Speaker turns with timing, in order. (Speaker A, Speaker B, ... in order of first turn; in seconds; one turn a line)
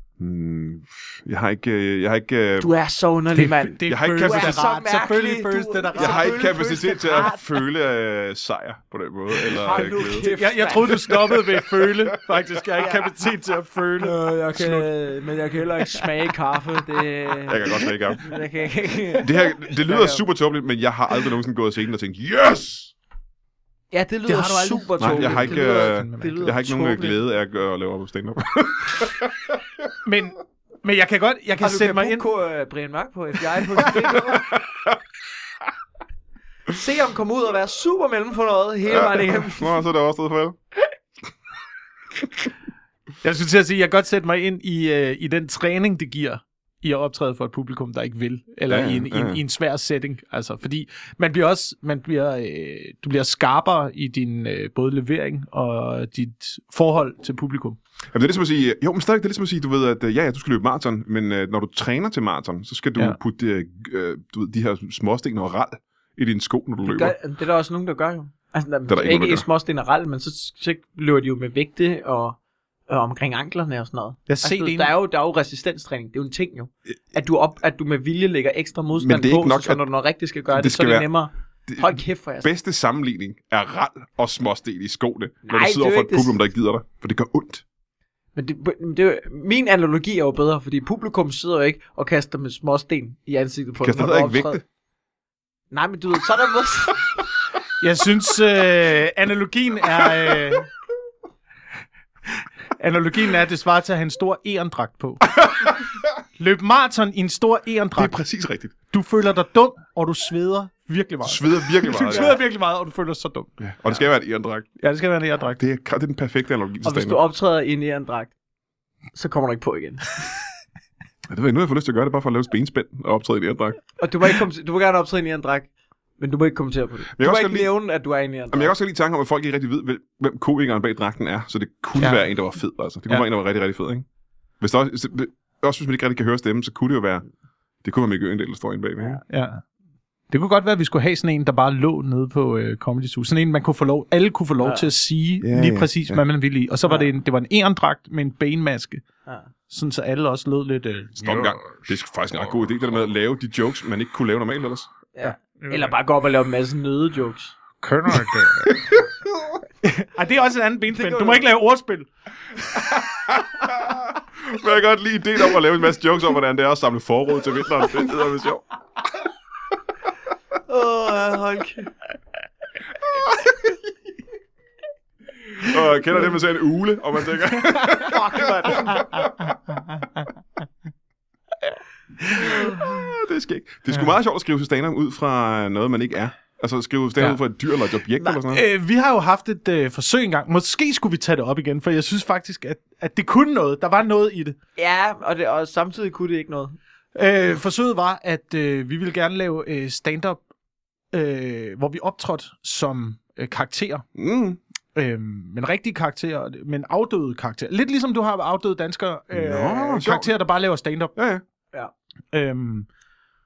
Speaker A: 0.2-2.7
Speaker B: 2.6-7.4
Speaker C: 3.3-6.4
Speaker A: 3.9-4.7
Speaker A: 6.0-10.3
Speaker B: 9.5-11.2
Speaker C: 9.9-14.9
Speaker A: 12.1-12.5
Speaker B: 12.8-13.2
Speaker B: 14.0-20.2
Speaker C: 15.8-16.1
Speaker A: 17.5-18.2
Speaker A: 19.2-22.9
Speaker B: 23.9-27.2
Speaker C: 24.2-26.6
Speaker A: 25.0-29.6
Speaker C: 30.0-32.3
Speaker B: 31.6-34.5
Speaker A: 34.5-35.0
Speaker B: 36.7-39.8
Speaker A: 38.9-40.6
Speaker C: 43.2-57.8
Speaker A: 48.7-49.4
Speaker A: 58.1-67.2
Speaker B: 66.8-82.5
Speaker A: 68.9-69.5
Speaker C: 74.3-74.9
Speaker A: 79.0-79.8
Speaker A: 80.5-81.1
Speaker A: 81.7-87.6
Speaker B: 85.5-86.4
Speaker B: 88.3-94.6
Speaker A: 93.8-94.6
Speaker B: 95.7-97.2
Speaker C: 97.8-100.7
Speaker C: 102.8-105.4
Speaker A: 105.3-105.8
Speaker C: 106.4-108.2
Speaker A: 108.0-108.8
Speaker C: 108.9-113.5
Speaker A: 111.2-112.4
Speaker B: 112.1-112.3
Speaker A: 113.6-114.7
Speaker C: 114.8-115.6
Speaker A: 115.6-117.2
Speaker B: 116.8-118.3
Speaker B: 119.1-120.2
Speaker A: 121.3-123.8
Speaker B: 124.0-128.8
Speaker A: 127.2-127.7
Speaker A: 128.5-134.1
Speaker A: 134.6-137.2
Speaker A: 137.8-139.2
Speaker C: 139.3-139.6
Speaker C: 140.3-149.1
Speaker B: 144.6-144.9
Speaker A: 145.4-146.2
Speaker C: 149.7-151.7
Speaker A: 151.2-154.9
Speaker B: 155.2-157.6
Speaker C: 155.2-155.9
Speaker C: 157.8-159.0
Speaker C: 159.8-162.1
Speaker B: 160.9-161.5
Speaker C: 162.7-163.0
Speaker A: 163.2-168.6
Speaker B: 170.7-171.9
Speaker A: 175.6-179.6
Speaker B: 178.0-179.1
Speaker C: 182.2-182.7
Speaker A: 182.4-188.7
Speaker C: 188.5-194.6
Speaker B: 194.8-196.8
Speaker C: 197.2-200.4
Speaker C: 201.1-204.1
Speaker A: 204.2-204.6
Speaker C: 204.9-211.1
Speaker A: 209.3-210.3
Speaker A: 211.2-211.4
Speaker C: 212.3-212.9